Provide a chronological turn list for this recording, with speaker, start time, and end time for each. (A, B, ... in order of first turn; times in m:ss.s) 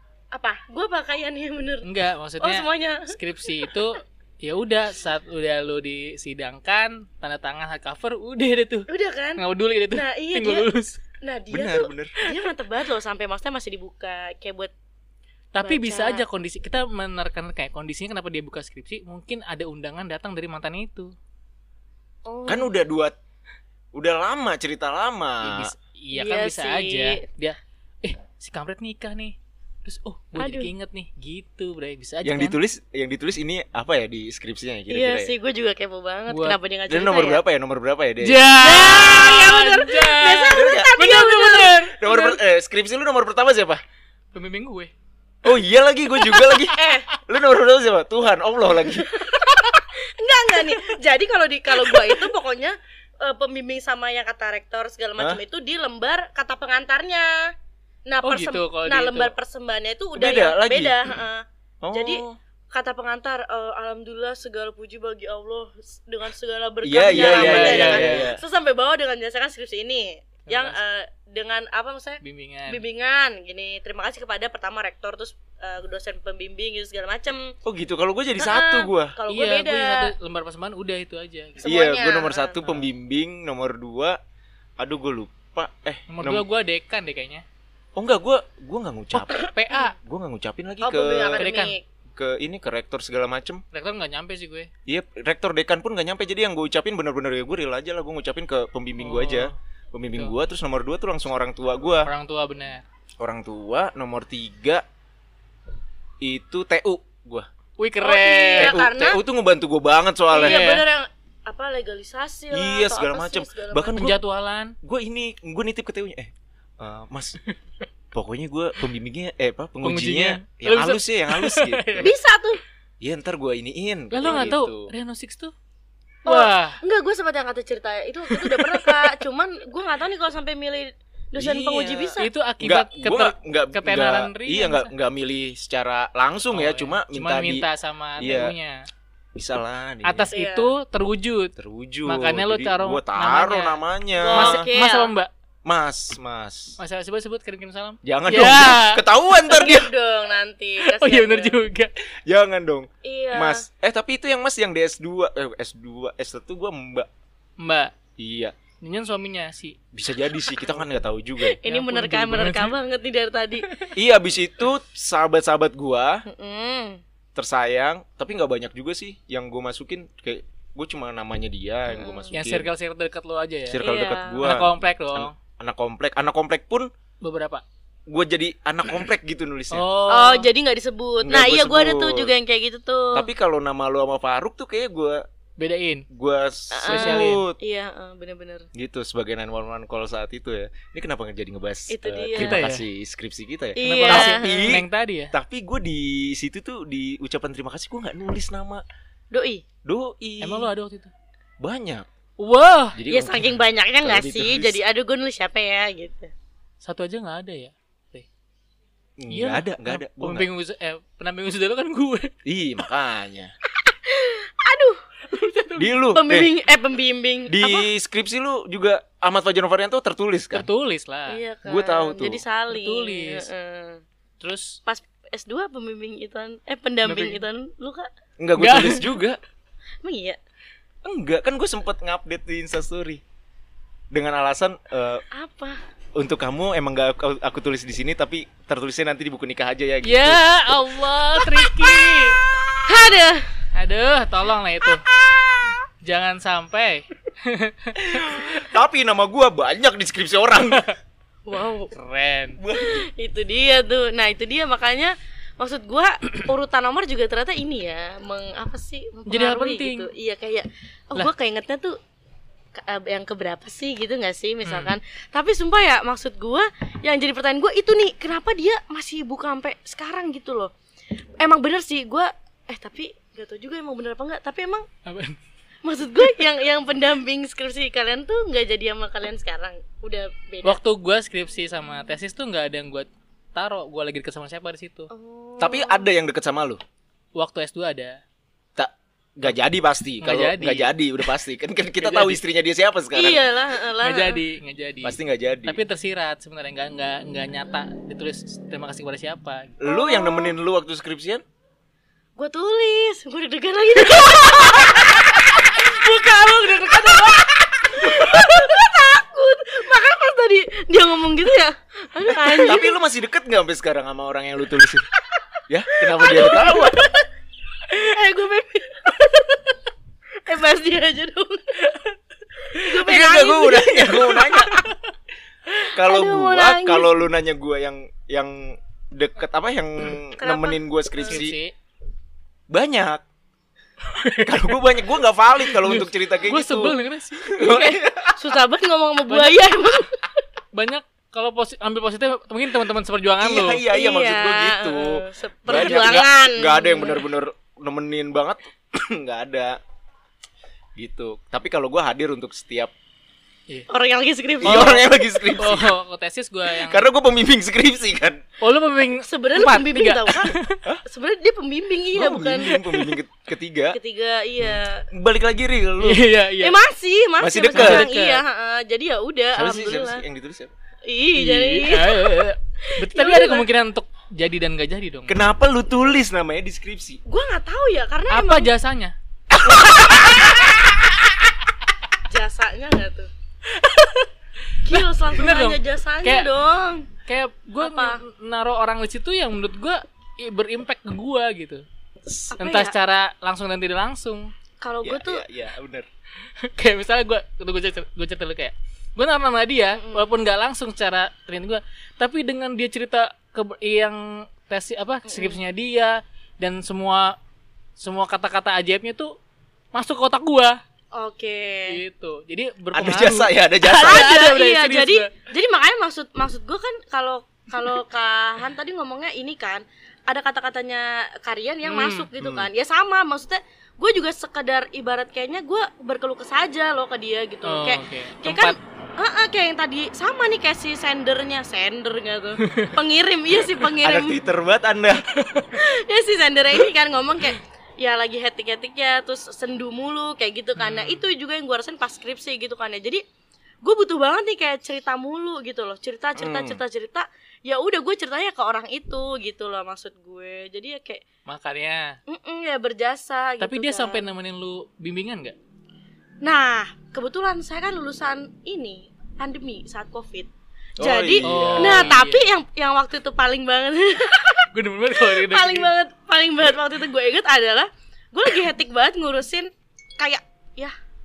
0:00.3-0:01.9 A
0:01.8-0:11.0 B
0:02.4-0:03.8 A
0:08.9-0:10.7 A
0:11.2-0:14.7 A
0:11.5-0:12.1 C
0:15.5-0:21.1 B
0:15.6-0:16.2 A
0:22.3-0:22.7 A
0:22.5-0:23.2 C
0:23.9-0:25.7 C
0:25.4-0:32.6 B
0:26.1-0:27.2 A
0:30.4-0:30.7 A
0:32.2-0:35.3 C
0:34.9-0:37.4 A
0:36.3-0:36.6 B
0:36.9-0:38.4 C
0:38.2-0:42.4 B
0:38.6-0:41.9 A
0:40.4-0:40.9 C
0:42.0-0:43.8 C
0:44.3-0:44.9 B
0:45.4-0:49.1 C
0:46.5-0:47.1 A
0:48.8-0:57.5 A
0:58.1-1:17.5 A
0:58.2-0:59.4 B
1:00.2-1:01.0 C
1:01.8-1:02.4 C
1:06.8-1:08.4 C
1:07.1-1:08.3 B
1:10.5-1:10.8 B
1:12.2-1:12.8 B
1:17.6-1:19.2 C
1:18.4-1:20.1 A
1:19.3-1:21.8 B
1:21.6-1:22.6 A
1:21.6-1:24.2 C
1:22.6-1:22.9 B
1:24.8-1:26.4 C
1:26.1-1:27.4 B
1:28.0-1:31.5 C
1:29.2-1:29.9 A
1:29.4-1:30.0 B
1:30.8-1:31.8 A
1:31.4-1:31.8 B
1:32.2-1:33.6 C
1:33.7-1:34.7 B
1:34.9-1:42.1 C
1:39.0-1:39.6 B
1:42.0-1:42.8 B
1:43.2-1:44.8 C
1:46.2-1:47.5 C
1:47.8-1:48.9 B
1:48.0-1:49.2 A
1:48.6-1:50.6 C
1:50.3-1:54.0 A
1:50.4-1:50.8 B
1:52.5-1:54.2 C
1:53.9-1:54.8 B
1:54.8-1:57.4 C
1:58.1-2:02.1 C
1:59.8-2:02.1 B
2:02.0-2:02.6 A
2:03.0-2:04.9 C
2:04.1-2:05.5 B
2:04.2-2:04.6 A
2:06.2-2:12.3 A
2:06.3-2:06.8 B
2:08.3-2:09.1 B
2:11.4-2:17.7 C
2:12.2-2:14.9 B
2:16.5-2:18.9 B
2:18.2-2:18.6 C
2:19.4-2:20.3 C
2:20.0-2:21.6 B
2:20.3-2:20.7 A
2:21.6-2:24.6 C
2:22.1-2:23.8 B
2:24.2-2:25.1 A
2:24.3-2:25.3 B
2:25.6-2:26.8 C
2:26.8-2:29.0 B
2:28.0-2:29.9 C
2:29.4-2:31.6 A
2:30.8-2:31.9 B
2:32.3-2:37.1 C
2:33.0-2:33.6 A
2:37.6-2:37.9 B
2:38.2-2:38.5 C
2:38.8-2:39.8 B
2:39.9-2:41.6 C
2:41.4-2:43.7 A
2:41.6-2:42.8 B
2:43.7-2:43.9 B
2:44.0-2:46.2 C
2:46.3-2:47.0 A
2:47.4-2:52.7 C
2:51.9-2:52.3 A
2:52.3-2:53.8 B
2:53.7-2:56.9 C
2:53.8-2:54.5 A
2:54.4-2:55.4 B
2:57.2-2:57.6 B
2:58.1-2:59.9 C
2:59.7-3:00.5 B
3:00.1-3:03.3 A
3:01.2-3:02.3 C
3:03.2-3:05.2 C
3:05.6-3:06.1 B
3:06.1-3:07.6 C
3:06.7-3:08.7 A
3:06.8-3:07.4 B
3:08.8-3:18.8 C
3:11.9-3:12.6 A
3:12.4-3:12.8 B
3:13.8-3:14.8 A
3:13.8-3:15.3 B
3:19.3-3:19.6 A
3:19.8-3:20.7 C
3:20.4-3:21.1 B
3:21.6-3:22.1 C
3:22.4-3:23.0 B
3:23.0-3:24.8 C
3:23.1-3:26.3 A
3:26.8-3:28.3 B
3:29.2-3:30.5 C
3:29.3-3:32.3 B
3:32.4-3:33.5 C
3:33.8-3:35.0 A
3:35.3-3:36.0 B
3:35.8-3:36.5 C
3:36.1-3:37.9 A
3:37.5-3:40.7 C
3:40.5-3:41.4 B
3:41.3-3:44.0 A
3:41.7-3:42.4 C
3:42.7-3:43.5 B
3:44.4-3:44.8 B
3:44.9-3:48.1 A
3:47.0-3:47.4 B
3:48.4-3:49.4 C
3:48.6-3:49.2 B
3:50.0-3:50.4 A
3:51.0-3:53.2 C
3:54.1-3:55.2 C
3:55.3-3:55.8 A
3:56.2-4:00.4 C
4:00.0-4:02.4 B
4:01.4-4:02.1 A
4:02.8-4:03.5 A
4:03.7-4:05.0 B
4:05.3-4:05.8 A
4:06.0-4:08.4 B
4:08.0-4:10.9 C
4:11.5-4:11.9 A
4:11.9-4:12.6 B
4:12.6-4:13.1 C
4:12.7-4:22.0 A
4:19.3-4:20.1 B
4:22.8-4:30.7 A
4:24.6-4:25.0 B
4:31.4-4:34.9 A
4:35.1-4:35.4 B
4:35.8-4:40.8 A
4:40.6-4:45.1 B
4:45.1-4:46.1 A
4:45.6-4:46.8 C
4:47.4-4:48.2 B
4:48.8-4:53.4 C
4:50.2-4:50.9 B
4:52.0-4:52.4 B
4:53.1-4:54.4 A
4:54.0-4:59.8 B
4:55.0-4:55.8 C
4:59.8-5:01.4 C
4:59.8-5:00.6 A
5:02.4-5:13.0 A
5:12.3-5:15.1 C
5:15.7-5:17.0 C
5:16.0-5:17.3 A
5:17.9-5:19.8 A
5:20.4-5:24.8 A
5:22.8-5:24.9 C
5:25.7-5:27.2 A
5:25.9-5:31.6 C
5:30.4-5:31.5 A
5:31.3-5:31.7 B
5:32.7-5:33.2 C
5:34.1-5:34.8 B
5:34.4-5:38.4 C
5:35.6-5:37.7 B
5:37.6-5:40.2 A
5:39.3-5:40.0 B
5:40.7-5:43.8 B
5:43.4-5:49.8 C
5:43.9-5:47.3 A
5:51.0-5:52.9 C
5:53.9-5:55.1 A
5:54.6-5:56.0 C
5:54.7-5:54.9 B
5:55.6-5:57.1 B
5:56.8-5:58.4 C
5:58.6-6:00.8 B
5:59.2-6:02.8 A
6:02.1-6:04.0 C
6:03.9-6:05.1 A
6:05.1-6:06.3 C
6:06.0-6:06.8 B
6:06.6-6:10.2 A
6:07.4-6:08.1 C
6:07.7-6:08.4 B
6:09.6-6:10.7 C
6:11.1-6:13.7 A
6:11.4-6:15.4 B
6:15.3-6:17.2 C
6:17.3-6:18.7 A
6:18.3-6:19.2 B
6:19.7-6:20.3 C
6:19.9-6:20.8 A
6:22.2-6:23.3 A
6:23.7-6:26.5 B
6:24.8-6:27.1 A
6:27.3-6:31.8 B
6:27.8-6:28.2 A
6:32.4-6:32.9 A
6:32.5-6:34.5 B
6:34.8-6:35.4 A
6:35.0-6:36.1 C
6:36.6-6:47.4 B
6:40.0-6:40.3 A
6:45.3-6:45.6 A
6:48.0-6:49.4 B
6:49.9-6:50.8 B
6:51.1-6:52.0 A
6:51.9-6:55.3 B
6:52.9-6:54.3 C
6:53.8-7:14.4 A
7:01.8-7:02.3 B
7:02.4-7:02.7 C
7:07.6-7:08.8 B
7:12.6-7:13.0 B
7:14.0-7:15.2 C
7:15.3-7:15.8 B
7:15.8-7:23.2 A
7:20.8-7:21.2 B
7:23.8-7:31.2 A
7:26.4-7:26.8 C
7:31.5-7:32.2 B
7:32.3-7:34.3 A
7:33.6-7:35.6 B
7:36.4-7:50.9 A
7:41.0-7:42.1 C
7:41.4-7:42.5 B
7:44.7-7:45.9 B